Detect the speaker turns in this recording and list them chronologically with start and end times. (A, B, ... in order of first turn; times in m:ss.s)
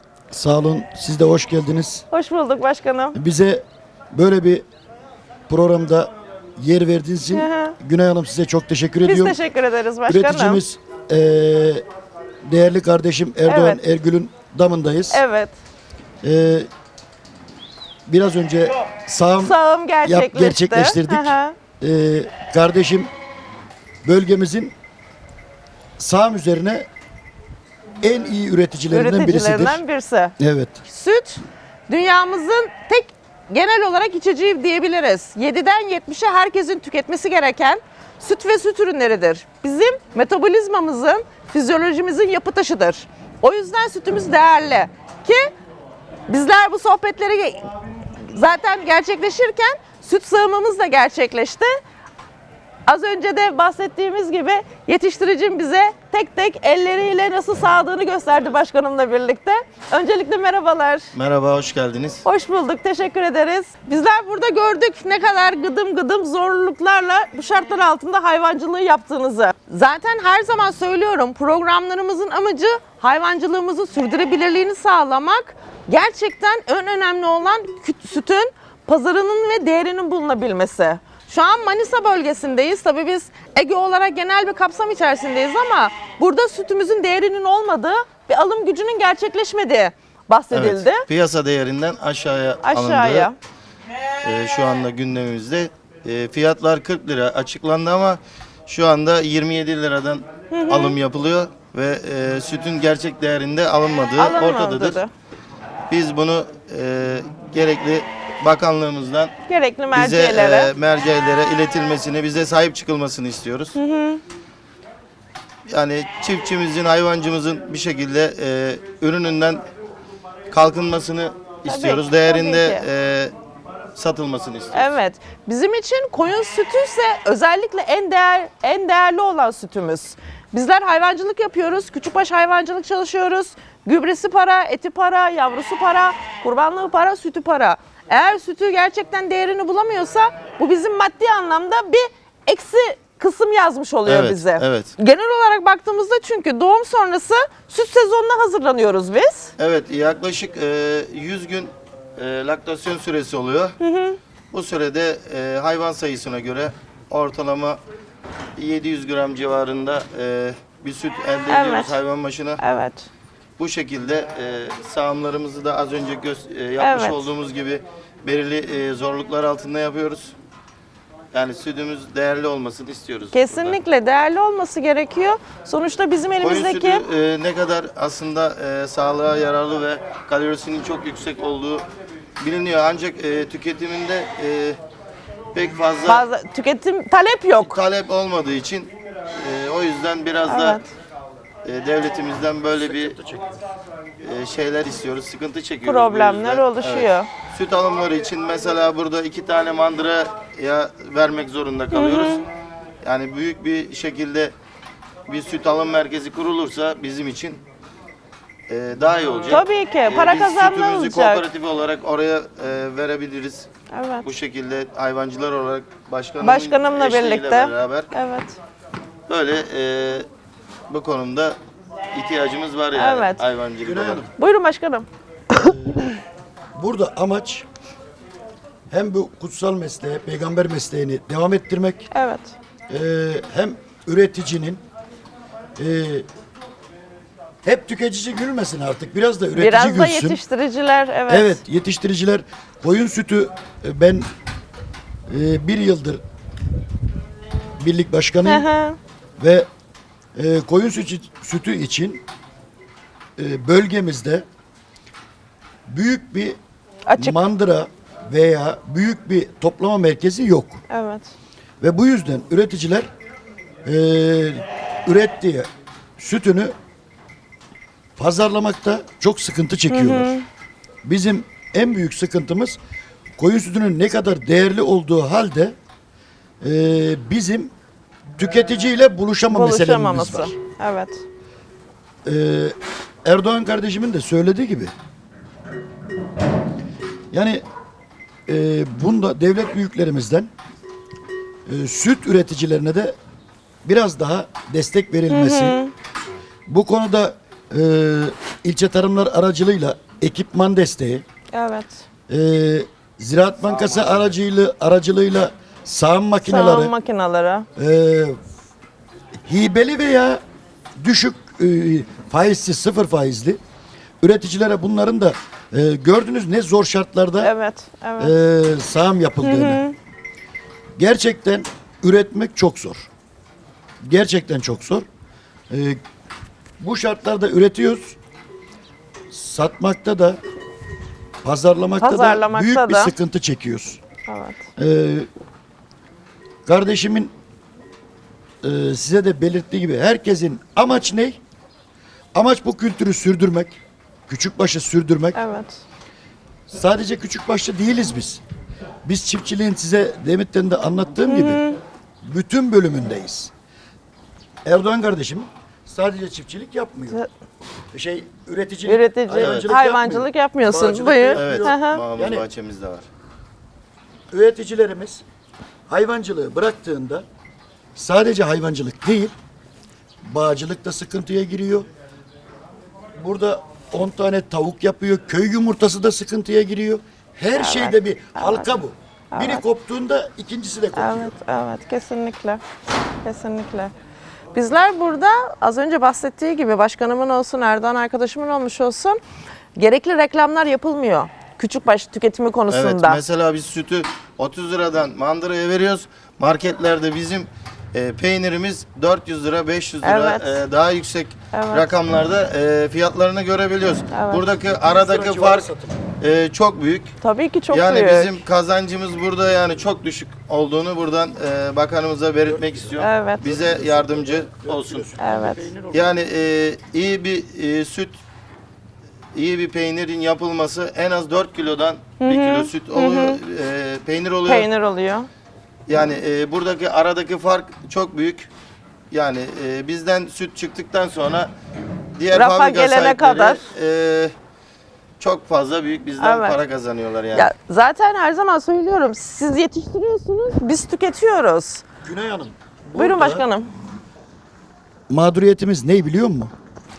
0:00.3-0:02.0 A
0:02.1-0:03.2 B
0:03.1-0:04.6 A
0:05.5-0:09.4 A
0:07.3-0:07.8 B
0:09.0-0:10.6 B
0:10.1-0:11.8 A
0:12.4-0:15.2 A
0:13.4-0:13.8 B
0:15.1-0:15.5 B
0:16.2-0:16.7 A
0:18.1-0:23.1 A
0:19.4-0:21.6 B
0:24.0-0:24.7 A
0:26.0-0:26.9 A
0:28.0-0:29.8 A
0:28.9-0:30.3 B
0:30.4-0:30.8 A
0:30.9-0:45.5 B
0:46.3-0:47.7 B
0:48.3-0:51.8 B
0:52.9-1:01.1 B
1:01.1-1:02.2 C
1:02.2-1:31.0 B
1:30.5-1:33.3 C
1:32.6-1:33.4 B
1:34.2-1:45.0 C
1:40.5-1:41.0 B
1:44.2-1:45.1 B
1:45.9-1:49.3 C
1:49.5-1:50.7 B
1:49.9-1:53.8 C
1:53.8-1:54.2 B
1:55.7-1:59.6 C
2:00.5-2:03.3 C
2:01.6-2:02.8 B
2:03.9-2:04.9 C
2:04.7-2:29.5 B
2:24.0-2:24.9 C
2:29.6-2:33.8 C
2:33.8-2:34.2 B
2:34.5-2:37.8 C
2:38.6-2:42.6 C
2:41.5-2:42.0 B
2:42.6-2:43.1 B
2:43.6-2:50.3 C
2:46.8-2:47.3 B
2:51.3-2:53.8 C
2:53.3-2:57.0 B
2:56.4-3:01.9 C
3:02.4-3:04.8 C
3:05.5-3:06.2 C
3:06.0-3:07.8 B
3:07.6-3:10.8 C
3:10.5-3:10.9 B
3:11.6-3:13.2 C
3:12.7-3:13.5 A
3:14.2-3:22.4 C
3:15.8-3:17.3 B
3:21.9-3:22.4 B
3:23.0-3:24.5 C
3:25.3-3:27.6 C
3:28.7-3:33.7 C
3:29.5-3:31.4 B
3:33.9-3:34.3 B
3:34.2-3:38.1 C
3:36.4-3:38.6 B
3:39.3-3:40.3 C
3:40.9-3:41.6 C
3:42.1-3:44.2 C
3:42.9-3:43.4 B
3:43.8-3:44.3 A
3:44.4-3:45.1 B
3:45.5-3:46.1 A
3:46.7-3:47.6 A
3:48.9-3:52.1 A
3:52.1-3:52.5 B
3:52.9-3:54.8 A
3:55.8-3:56.2 A
3:57.6-4:00.4 A
3:59.6-4:01.6 B
4:01.3-4:04.3 A
4:05.3-4:06.2 A
4:07.8-4:08.7 A
4:08.4-4:09.0 B
4:09.4-4:09.7 A
4:10.4-4:12.2 A
4:13.4-4:14.4 A
4:15.9-4:16.6 A
4:17.1-4:17.4 B
4:17.2-4:20.8 A
4:20.9-4:21.3 B
4:21.8-4:23.1 A
4:23.8-4:26.7 A
4:28.2-4:30.3 A
4:29.9-4:30.4 B
4:31.0-4:32.8 A
4:33.4-4:35.8 A
4:36.6-4:37.7 A
4:38.4-4:40.5 A
4:39.5-4:41.2 B
4:42.2-4:44.9 A
4:47.3-4:47.6 A
4:48.5-4:50.5 A
4:51.6-4:53.2 A
4:53.8-4:55.8 A
4:55.3-4:55.9 B
4:56.7-5:01.2 A
5:01.5-5:02.0 B
5:02.3-5:06.9 A
5:03.7-5:04.3 C
5:06.4-5:07.6 B
5:07.8-5:08.4 A
5:09.4-5:10.4 A
5:11.0-5:13.6 A
5:14.2-5:17.5 A
5:17.4-5:18.3 B
5:18.2-5:19.8 A
5:19.4-5:20.0 B
5:21.0-5:23.1 A
5:24.0-5:25.0 A
5:25.7-5:26.0 A
5:26.8-5:28.2 A
5:29.3-5:30.4 A
5:31.4-5:34.0 A
5:32.0-5:33.1 B
5:34.3-5:34.6 B
5:34.8-5:35.3 A
5:36.6-5:37.3 A
5:38.6-5:41.4 A
5:42.3-5:43.8 A
5:44.3-5:45.4 A
5:45.3-5:45.8 B
5:46.7-5:48.4 A
5:49.0-5:51.6 A
5:51.3-5:51.8 B
5:52.2-5:53.5 A
5:54.6-5:57.2 A
5:57.9-6:02.4 A
5:58.8-6:02.0 B
5:59.4-5:59.7 C
6:01.3-6:03.0 C
6:04.3-6:05.2 A
6:05.9-6:07.2 A
6:08.0-6:09.3 A
6:10.2-6:11.9 A
6:13.2-6:21.3 A
6:17.6-6:18.8 B
6:19.3-6:19.6 B
6:20.9-6:22.6 B
6:23.2-6:23.9 B
6:24.5-6:29.2 B
6:29.8-6:33.2 B
6:32.7-6:45.6 C
6:40.0-6:40.6 B
6:41.5-6:41.9 B
6:44.1-6:44.4 B
6:44.6-6:46.0 A
6:46.2-6:47.1 C
6:47.2-6:48.4 B
6:47.7-6:55.1 C
6:52.4-6:56.2 A
6:53.0-6:53.4 B
6:55.2-6:55.6 B
6:55.9-6:58.2 C
6:59.3-7:04.7 C
7:02.2-7:03.4 B
7:04.4-7:05.3 B
7:05.9-7:08.5 C
7:09.1-7:11.5 C
7:12.2-7:14.3 C
7:12.3-7:13.6 B
7:15.2-7:17.5 C
7:16.2-7:16.6 B
7:17.3-7:21.8 B
7:22.0-7:23.4 A
7:22.9-7:23.7 B
7:25.1-7:26.5 A